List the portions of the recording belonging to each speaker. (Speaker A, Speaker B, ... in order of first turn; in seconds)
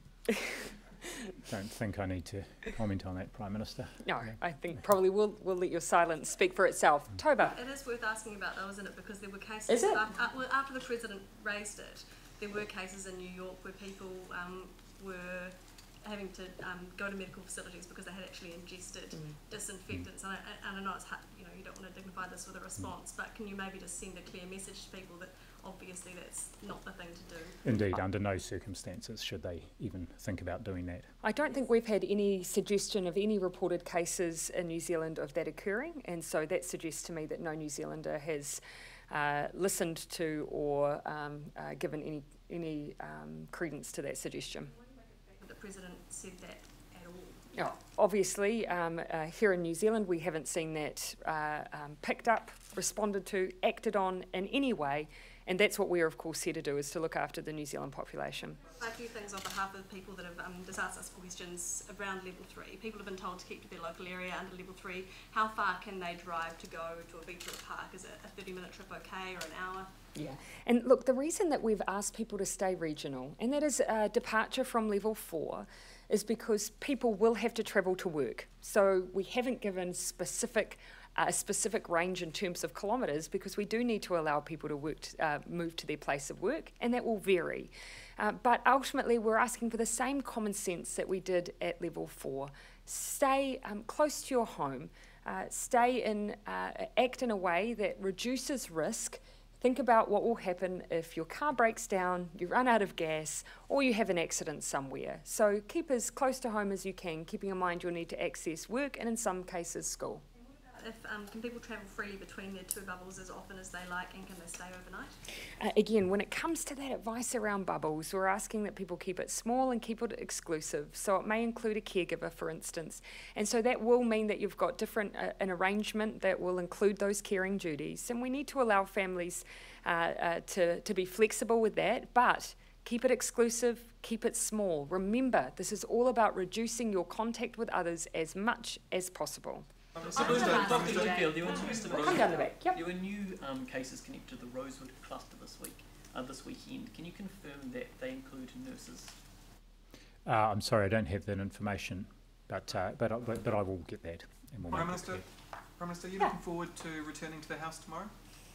Speaker A: 1.4-4.0, 27.6-31.1, 150.2-155.2
Speaker B: 4.0-7.5, 9.7-10.0, 31.2-44.7, 47.5-58.6, 70.1-110.2, 115.6-142.8
Speaker C: 7.5-27.6, 45.3-47.4, 58.7-69.9, 110.7-115.2
Speaker D: 140.1-149.2
Speaker E: 140.2-142.0, 154.7-155.2, 155.8-158.1